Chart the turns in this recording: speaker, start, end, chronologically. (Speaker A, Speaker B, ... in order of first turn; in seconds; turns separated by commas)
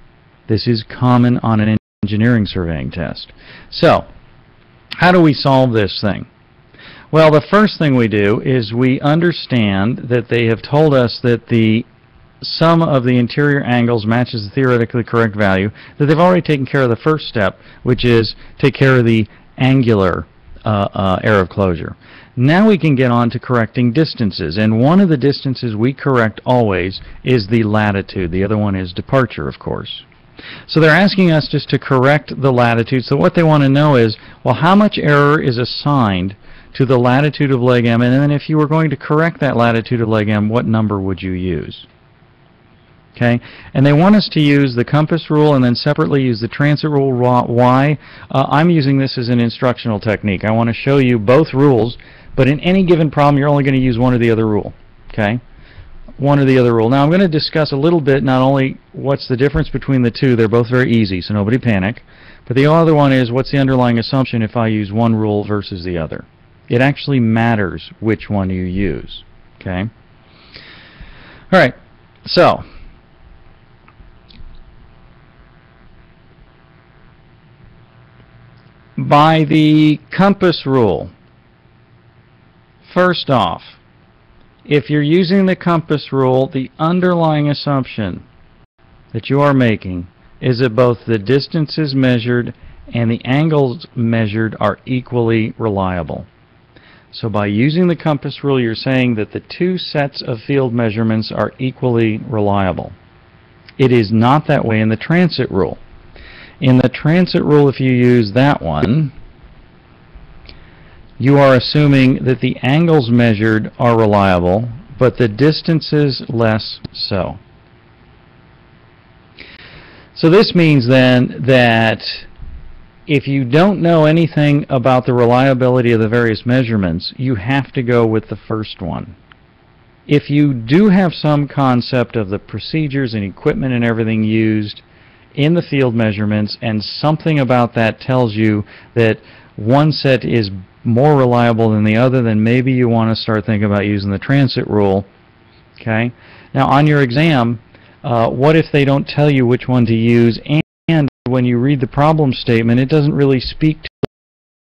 Speaker A: 0.5-4.1, Speaker A: 5.0-6.3, Speaker A: 7.1-11.8, Speaker A: 12.4-30.0, Speaker A: 30.7-41.9, Speaker A: 43.1-55.4, Speaker A: 56.2-69.9, Speaker A: 71.5-72.6, Speaker A: 79.0-81.1, Speaker A: 82.8-83.8, Speaker A: 84.6-88.2, Speaker A: 89.1-96.3, Speaker A: 97.1-102.9, Speaker A: 103.8-105.8, Speaker A: 106.6-109.1, Speaker A: 111.2-117.4, Speaker A: 120.1-122.3, Speaker A: 123.1-129.2, Speaker A: 130.1-134.8, Speaker A: 135.3-145.1, Speaker A: 145.8-153.9